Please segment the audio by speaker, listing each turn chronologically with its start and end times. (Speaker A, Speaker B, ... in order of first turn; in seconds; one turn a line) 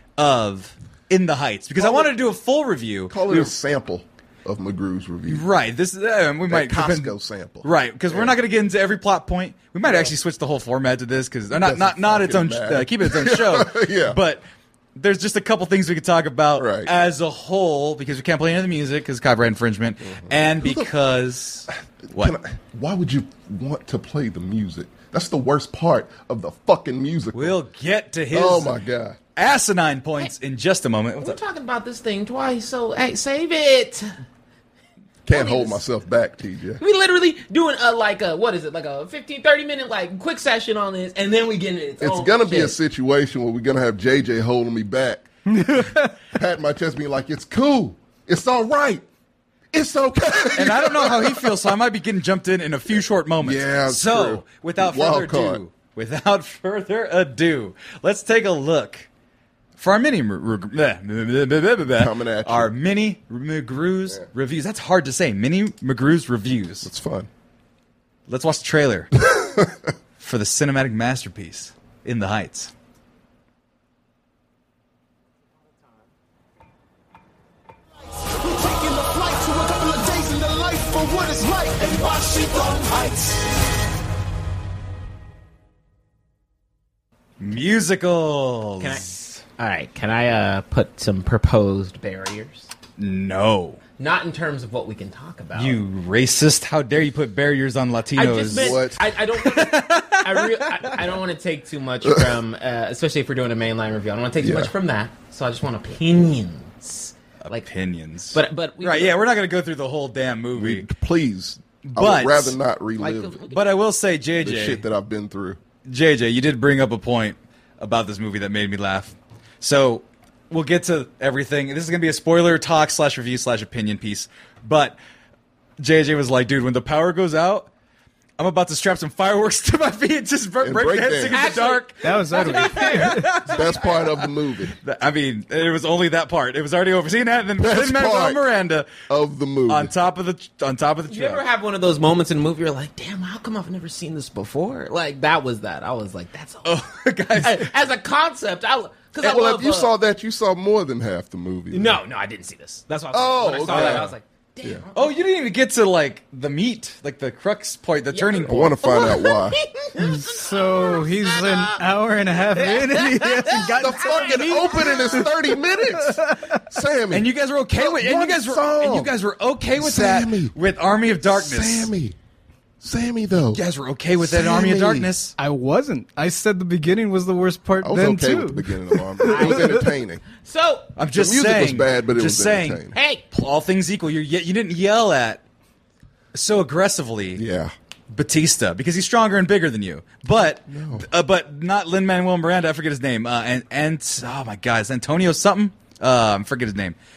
Speaker A: 0.2-3.5
Speaker B: 1.8-2.1
Speaker B: 3.1-5.5
Speaker A: 5.3-14.4
Speaker B: 6.5-8.4
Speaker B: 9.9-10.1
Speaker B: 11.5-14.2
Speaker A: 15.0-22.4
Speaker B: 16.6-16.9
Speaker B: 20.1-20.9
Speaker B: 22.1-27.6
Speaker A: 27.3-28.8
Speaker B: 28.3-29.2
Speaker A: 29.4-31.4
Speaker C: 31.2-34.1
Speaker B: 35.3-36.8
Speaker C: 35.3-35.8
Speaker C: 36.8-42.8
Speaker B: 42.0-49.0
Speaker D: 45.6-45.9
Speaker B: 49.7-51.6
Speaker A: 50.5-59.1
Speaker B: 53.4-55.6
Speaker A: 59.8-66.9
Speaker B: 62.0-62.7
Speaker B: 66.8-67.3
Speaker A: 68.3-69.2
Speaker B: 69.2-69.8
Speaker A: 70.2-72.7
Speaker E: 78.2-83.4
Speaker A: 87.4-89.3
Speaker C: 88.8-92.7
Speaker A: 93.0-93.8
Speaker C: 94.0-95.8
Speaker A: 95.6-98.8
Speaker C: 98.2-107.7
Speaker B: 98.5-99.0
Speaker A: 99.4-101.0
Speaker B: 104.4-104.7
Speaker A: 107.5-110.9
Speaker C: 108.3-109.2
Speaker B: 110.5-113.4
Speaker A: 111.8-112.6
Speaker C: 113.0-113.6
Speaker A: 113.5-114.8
Speaker B: 114.4-115.6
Speaker A: 115.9-125.0
Speaker A: 125.8-127.7
Speaker A: 128.4-134.0
Speaker B: 130.6-131.6
Speaker C: 131.3-134.0
Speaker D: 132.0-133.3
Speaker B: 133.4-134.8
Speaker A: 134.8-138.9
Speaker B: 137.6-138.4
Speaker B: 139.1-139.9
Speaker A: 139.7-141.4
Speaker C: 141.1-146.8
Speaker A: 146.7-147.7
Speaker C: 147.3-149.9
Speaker B: 149.2-152.0
Speaker C: 151.7-155.2
Speaker B: 153.1-154.8
Speaker A: 153.6-154.1
Speaker A: 154.9-158.8
Speaker C: 158.1-161.9
Speaker B: 158.5-159.6
Speaker D: 160.0-165.3
Speaker C: 162.4-165.3
Speaker B: 163.7-169.1
Speaker D: 166.1-166.6
Speaker A: 167.1-171.9
Speaker B: 169.8-170.6
Speaker B: 171.3-172.2
Speaker B: 172.8-173.6
Speaker A: 173.5-175.3
Speaker B: 174.2-175.1
Speaker D: 175.4-179.9
Speaker B: 177.8-180.2
Speaker C: 179.2-180.9
Speaker A: 181.0-185.4
Speaker B: 181.1-182.9
Speaker C: 182.9-183.2
Speaker A: 186.3-187.4
Speaker B: 187.4-187.7
Speaker A: 188.1-197.0
Speaker B: 190.7-191.1